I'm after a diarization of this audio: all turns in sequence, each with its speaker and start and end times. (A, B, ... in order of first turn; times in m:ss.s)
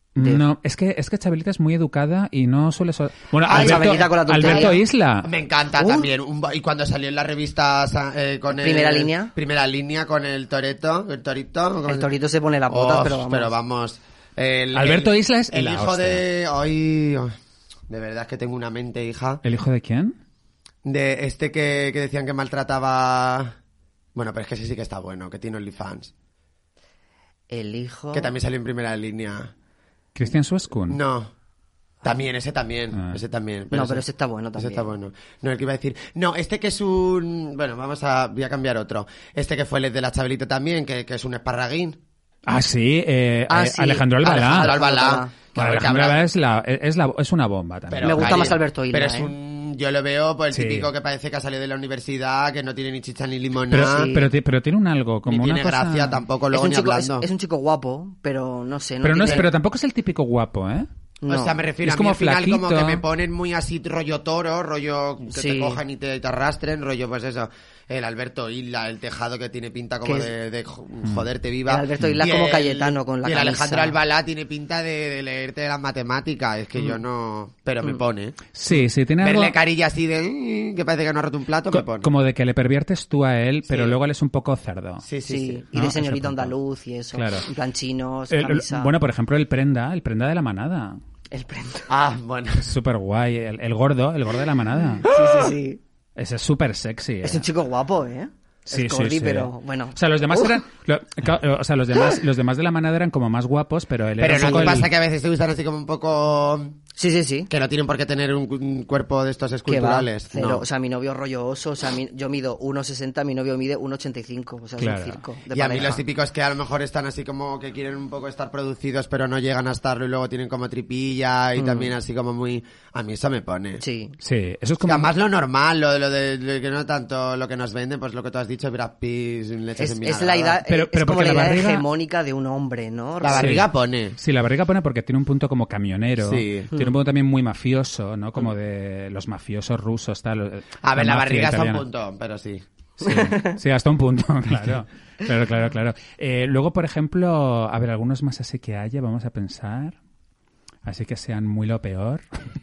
0:00.2-0:00.4 A
0:00.2-0:05.3 B
0:03.5-0:12.1 C
0:03.5-0:04.8 A
0:05.8-0:06.1 A
0:08.5-0:09.3 A
0:11.8-0:13.5 A
0:12.7-0:17.4 C
0:14.7-0:16.2 B
0:17.9-0:19.4 C
0:19.4-0:20.2 B
0:20.8-0:23.6 C
0:24.2-0:26.1 C
0:27.5-0:28.3 A
0:28.1-0:29.5 C
0:30.2-0:31.0 B
0:30.9-0:31.3 C
0:32.0-0:34.0 C
0:32.9-0:33.2 B
0:33.7-0:34.9 A
0:34.6-0:42.0 C
0:42.5-0:44.8 B
0:43.5-0:45.4 A
0:44.2-0:46.3 C
0:45.6-0:48.5 B
0:47.9-0:54.1 C
0:48.0-0:49.3 A
0:50.5-0:50.9 B
0:53.7-0:56.2 B
0:53.9-0:54.3 A
0:55.3-0:57.3 C
0:56.5-0:59.5 A
0:59.0-1:00.9 B
1:01.2-1:01.6 A
1:01.3-1:18.5 C
1:01.8-1:03.0 B
1:05.3-1:05.8 A
1:10.0-1:10.3 A
1:11.7-1:14.0 A
1:18.6-1:19.6 B
1:19.2-1:22.1 C
1:21.7-1:25.1 B
1:25.0-1:25.6 C
1:25.3-1:28.9 A
1:25.7-1:26.6 B
1:27.1-1:27.5 B
1:28.3-1:31.0 B
1:31.3-1:31.9 A
1:31.9-1:32.7 C
1:32.6-1:35.1 B
1:35.0-1:35.8 A
1:36.2-1:37.5 B
1:37.2-1:40.5 A
1:38.7-1:44.9 B
1:44.2-1:46.8 C
1:44.4-1:44.8 A
1:47.0-1:47.5 A
1:47.5-1:50.6 C
1:49.7-1:56.0 A
1:54.8-1:55.2 B
1:55.5-2:03.8 C
2:01.6-2:01.9 A
2:03.8-2:04.2 A
2:04.2-2:05.1 B
2:04.8-2:10.6 C
2:09.8-2:13.6 A
2:10.7-2:11.8 B
2:13.2-2:14.2 C
2:13.4-2:13.7 B
2:14.2-2:21.8 B
2:16.2-2:16.7 C
2:20.8-2:22.6 C
2:23.0-2:30.0 B
2:23.0-2:23.6 A
2:30.8-2:32.2 B